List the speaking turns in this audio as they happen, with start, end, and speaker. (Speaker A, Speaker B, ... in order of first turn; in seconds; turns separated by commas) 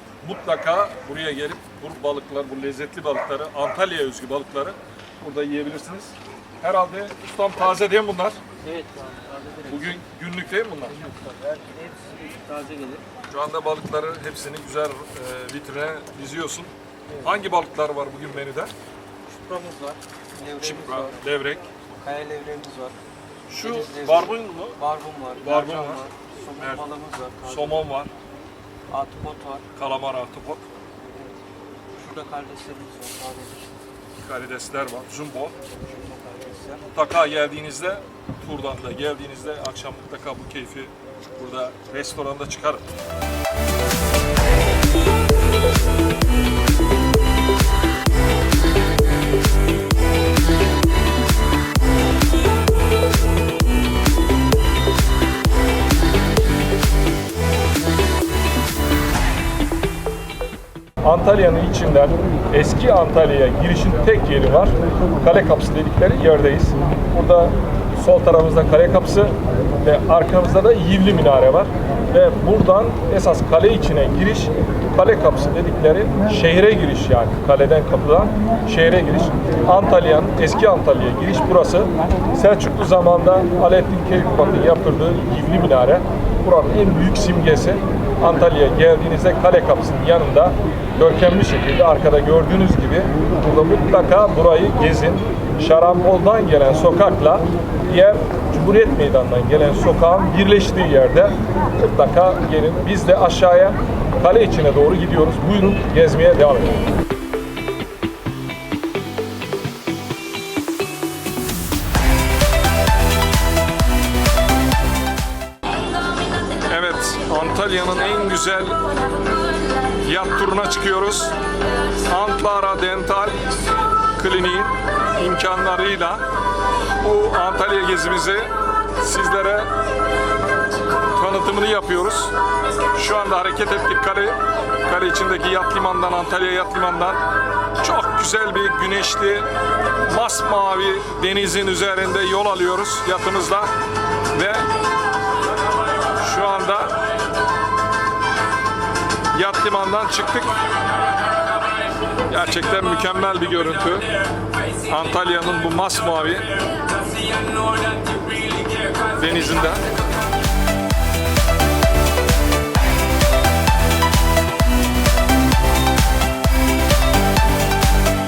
Speaker A: 0.2-8.4, Speaker B: 8.6-9.9, Speaker A: 9.7-10.9, Speaker B: 11.0-13.0, Speaker A: 13.3-18.7, Speaker B: 19.3-21.2, Speaker A: 20.6-21.7, Speaker B: 22.0-22.9, Speaker A: 23.5-28.1, Speaker B: 23.7-27.9, Speaker B: 28.9-29.6, Speaker A: 29.7-30.6, Speaker B: 32.0-33.7, Speaker A: 34.1-35.5, Speaker B: 35.8-36.8, Speaker A: 36.9-42.9, Speaker A: 61.0-106.8, Speaker A: 116.7-118.8, Speaker A: 120.0-121.3, Speaker A: 122.1-123.6, Speaker A: 124.1-126.2, Speaker A: 127.0-129.7, Speaker A: 131.1-132.3, Speaker A: 132.9-137.2, Speaker A: 137.8-139.5, Speaker A: 140.1-143.7, Speaker A: 144.3-144.7, Speaker A: 146.2-146.9, Speaker A: 149.3-150.6, Speaker A: 152.3-154.1, Speaker A: 154.8-156.5, Speaker A: 159.0-159.8